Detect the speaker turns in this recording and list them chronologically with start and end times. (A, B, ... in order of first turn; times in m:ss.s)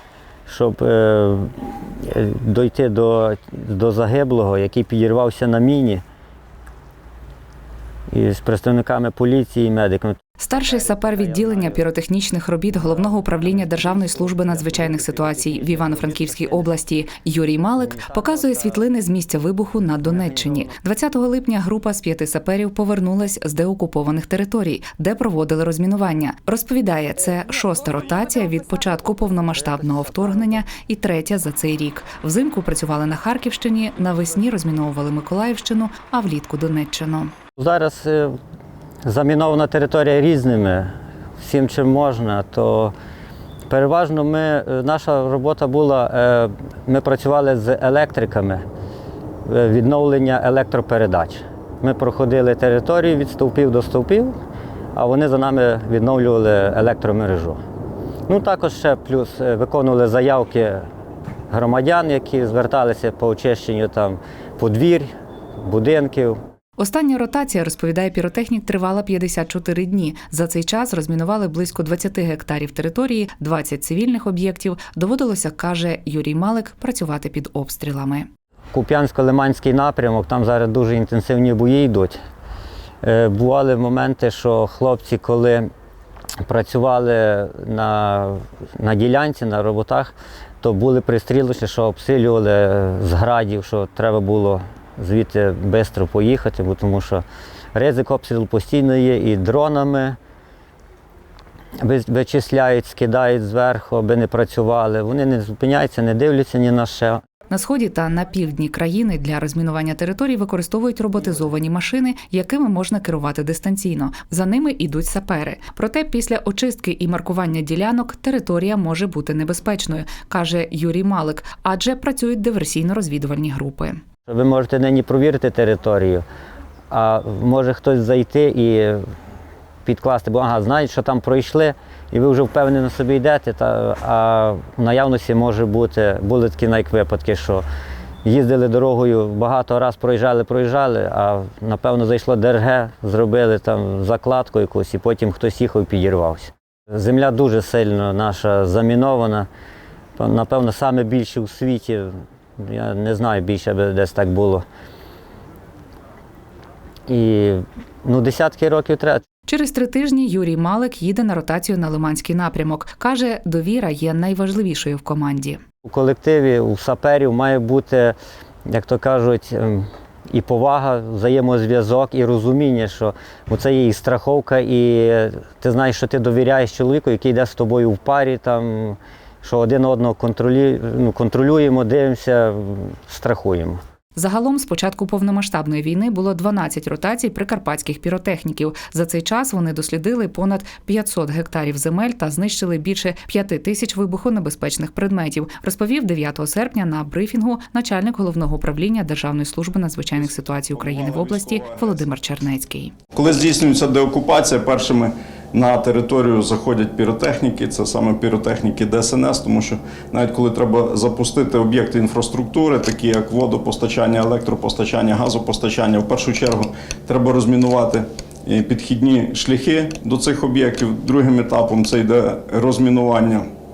0:00.5-0:06.0 A
0:08.1-0:11.8 A
0:10.4-0:37.3 B
0:12.7-0:16.7 A
0:17.8-0:18.8 A
0:20.0-0:20.7 A
0:29.8-0:30.4 A
0:37.6-0:38.4 A
0:39.0-0:42.9 A
0:43.7-0:48.6 A
0:49.5-0:54.3 A
0:54.9-0:57.6 A
0:58.3-1:00.8 A
1:01.5-1:05.1 A
1:05.6-1:06.4 A
1:06.8-1:18.3 B
1:18.7-1:22.2 A
1:23.0-1:25.7 A
1:26.4-1:37.2 A
1:37.7-1:40.2 A
1:41.8-1:47.2 A
1:47.5-2:04.0 B
2:04.3-2:06.2 A
2:06.9-2:09.0 A
2:09.8-2:17.6 A
2:18.2-2:29.5 A
2:30.2-2:34.6 A
2:37.1-2:39.2 A
2:39.5-2:45.6 B
2:45.8-2:48.1 A
2:48.7-3:03.8 A
3:04.2-3:22.9 B
3:20.1-3:22.0 C
3:23.1-3:43.4 C